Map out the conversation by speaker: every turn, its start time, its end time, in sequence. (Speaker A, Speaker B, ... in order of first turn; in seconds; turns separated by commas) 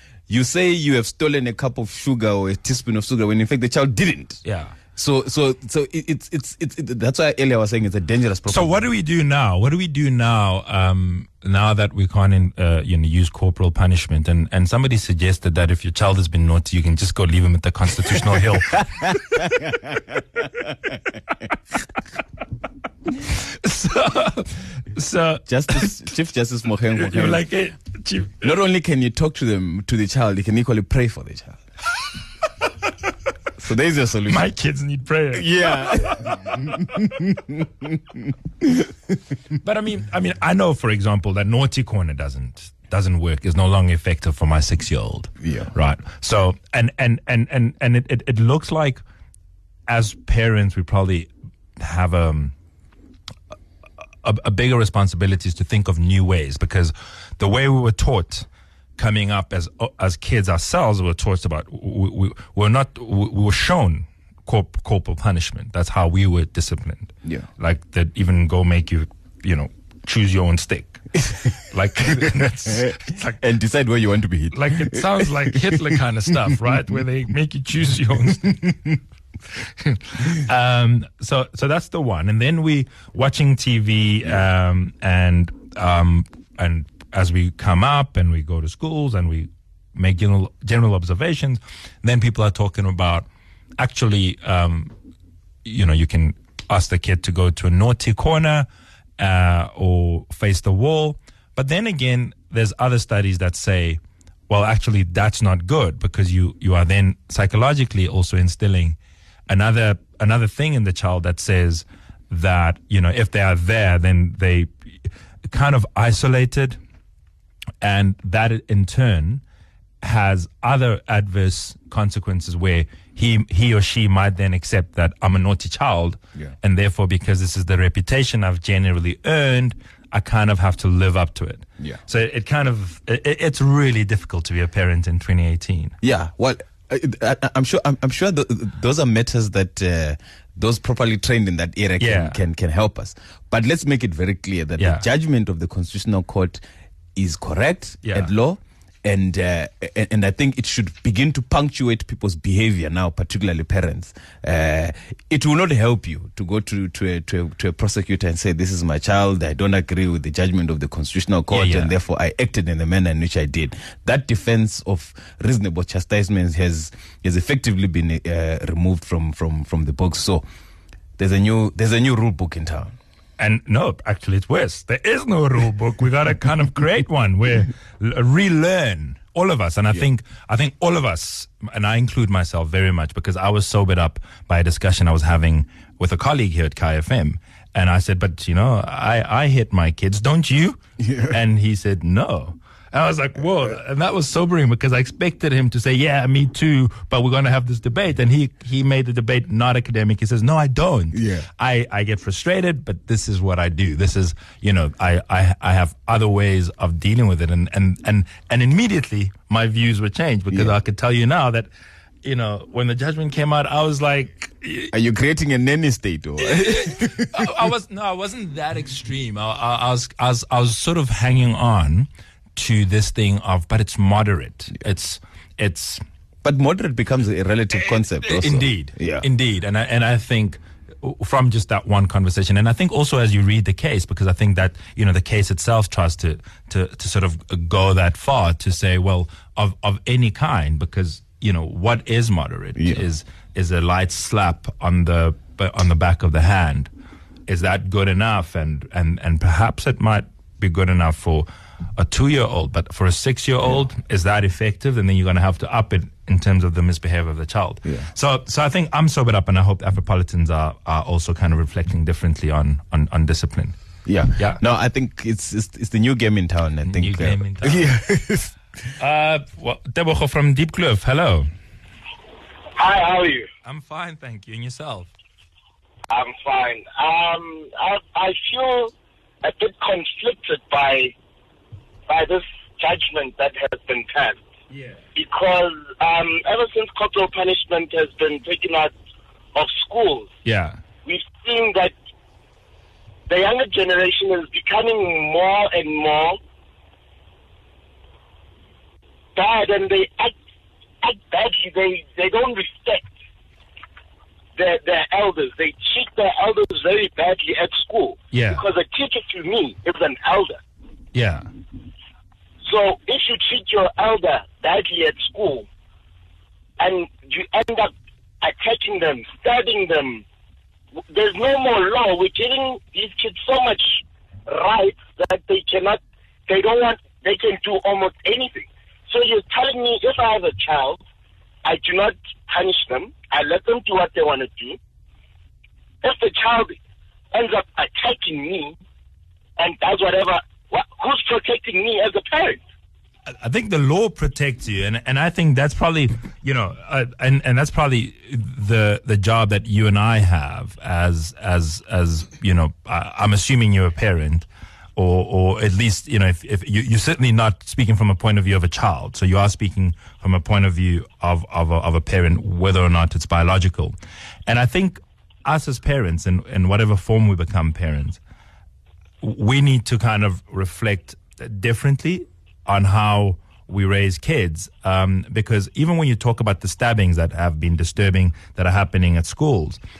Speaker A: 0.3-4.4, Speaker B: 4.4-4.7, Speaker A: 4.9-8.8, Speaker B: 8.5-19.8, Speaker A: 19.0-20.2, Speaker B: 23.2-26.0, Speaker A: 25.5-27.4, Speaker B: 26.9-28.5, Speaker A: 28.4-31.6, Speaker A: 33.6-34.5, Speaker B: 34.3-37.0, Speaker A: 35.3-39.1, Speaker B: 39.6-49.0, Speaker A: 45.4-45.7, Speaker B: 49.9-52.5, Speaker B: 54.2-73.4, Speaker A: 72.2-75.8, Speaker B: 74.5-78.7, Speaker B: 79.6-93.2, Speaker B: 93.8-94.9, Speaker B: 95.6-98.7, Speaker B: 99.2-114.7, Speaker B: 115.5-116.8, Speaker B: 117.8-119.4, Speaker B: 120.0-135.9, Speaker A: 136.0-146.6, Speaker B: 142.0-142.4, Speaker B: 144.8-145.0, Speaker A: 147.1-170.4, Speaker B: 148.0-148.3, Speaker B: 161.5-161.9, Speaker A: 171.2-172.9, Speaker B: 173.4-211.7, Speaker A: 191.0-191.4, Speaker A: 201.1-201.5, Speaker A: 210.5-210.8, Speaker B: 212.2-214.9, Speaker A: 214.9-217.4, Speaker B: 216.4-226.0, Speaker A: 226.4-229.2, Speaker B: 227.7-246.9, Speaker A: 242.8-243.0, Speaker B: 247.5-263.8, Speaker A: 264.1-268.6, Speaker B: 264.4-264.6, Speaker B: 266.8-267.9, Speaker B: 269.0-271.5, Speaker C: 272.8-273.5, Speaker B: 273.6-275.1, Speaker C: 276.1-281.1, Speaker C: 282.1-284.4, Speaker B: 284.7-285.0, Speaker C: 285.1-288.9, Speaker C: 289.5-290.3, Speaker B: 290.4-290.8, Speaker C: 291.0-291.9, Speaker C: 293.3-296.4, Speaker C: 299.3-300.3, Speaker C: 301.0-303.1, Speaker C: 304.6-310.6, Speaker B: 308.3-308.6, Speaker B: 311.1-311.5, Speaker C: 312.6-315.7, Speaker C: 316.8-320.2, Speaker C: 321.1-331.0, Speaker C: 331.6-334.8, Speaker C: 336.0-336.8, Speaker C: 337.3-338.7, Speaker C: 339.6-342.6, Speaker B: 343.4-363.9, Speaker B: 364.5-368.2, Speaker B: 369.2-379.8